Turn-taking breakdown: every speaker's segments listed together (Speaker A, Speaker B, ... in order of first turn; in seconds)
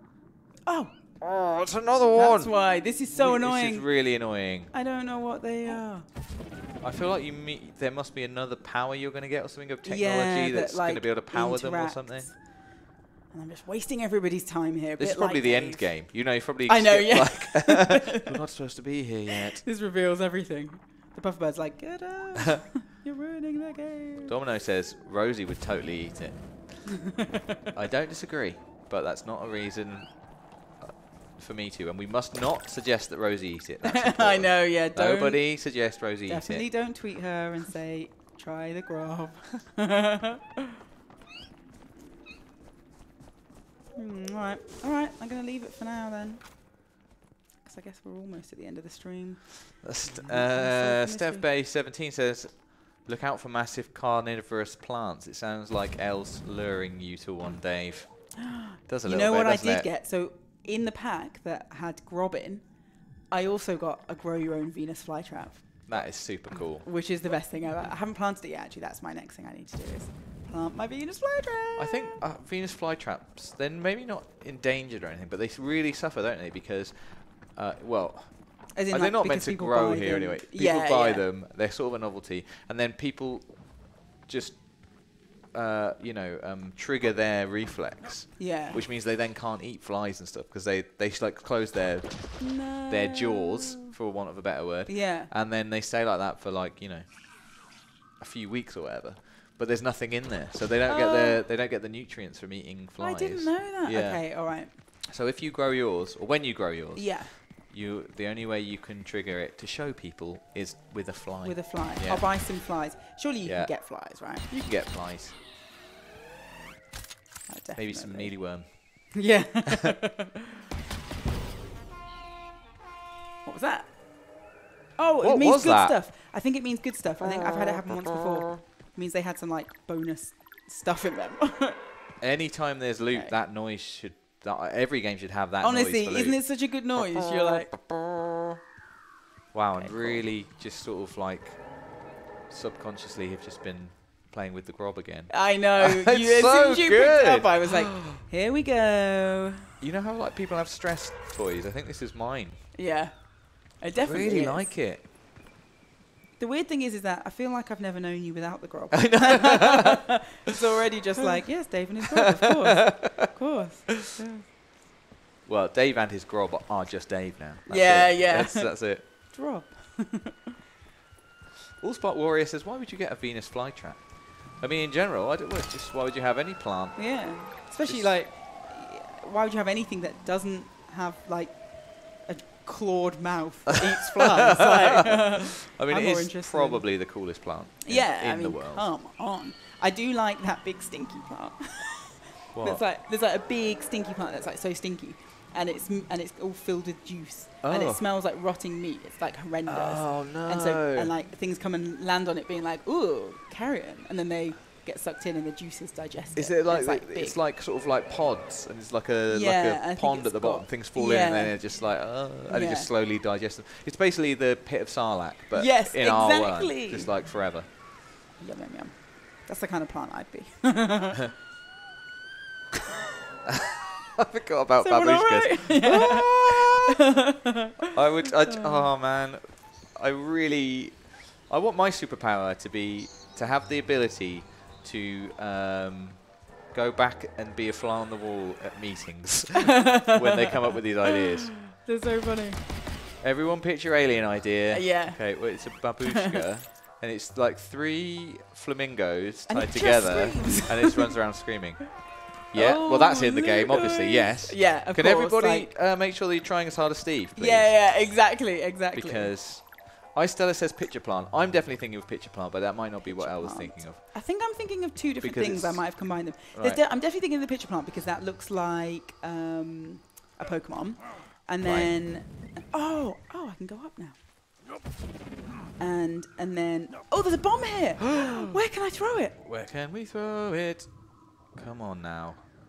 Speaker A: 0.7-1.0, 2.1-3.9, 4.7-6.1, 9.8-18.3, 19.3-24.3, 33.8-35.7, 36.3-40.4, 44.0-46.4, 47.6-51.5, 58.4-62.7, 63.3-65.9, 66.8-72.1, 78.7-81.2, 88.4-88.8, 92.4-93.9, 94.9-95.3, 100.9-101.4, 103.0-104.7, 107.0-107.3, 111.4-114.5, 117.5-120.3, 123.5-123.9, 125.0-131.8, 135.6-137.7, 139.8-140.2, 145.3-149.6, 152.7-154.7, 156.4-164.4, 167.7-170.3, 177.0-187.1, 187.8-207.4, 209.3-211.8, 212.5-212.9, 215.5-217.1, 218.4-221.3, 224.8-226.8, 228.4-228.9, 239.9-240.5, 241.1-242.6, 244.7-246.4, 249.5-251.1, 252.5-255.7, 257.4-259.3, 263.0-274.2, 275.8-279.4
Speaker B: 1.2-2.5, 3.1-4.7, 6.8-12.3, 15.0-19.6, 24.3-27.0, 27.7-36.7, 49.8-59.9, 65.9-66.8, 71.8-112.3, 113.5-115.4, 117.8-119.3, 125.2-126.0, 127.2-128.5, 132.2-136.4, 137.0-138.2, 139.5-148.2, 149.8-152.7, 154.0-155.0, 158.9-159.9, 162.2-163.1, 165.5-169.0, 171.8-178.2, 184.3-188.9, 192.5-192.8, 197.6-198.0, 199.7-201.1, 206.3-217.7, 223.5-226.9, 227.9-241.6, 243.2-257.9, 258.9-264.0, 265.2-266.8, 271.6-271.9, 279.4-282.4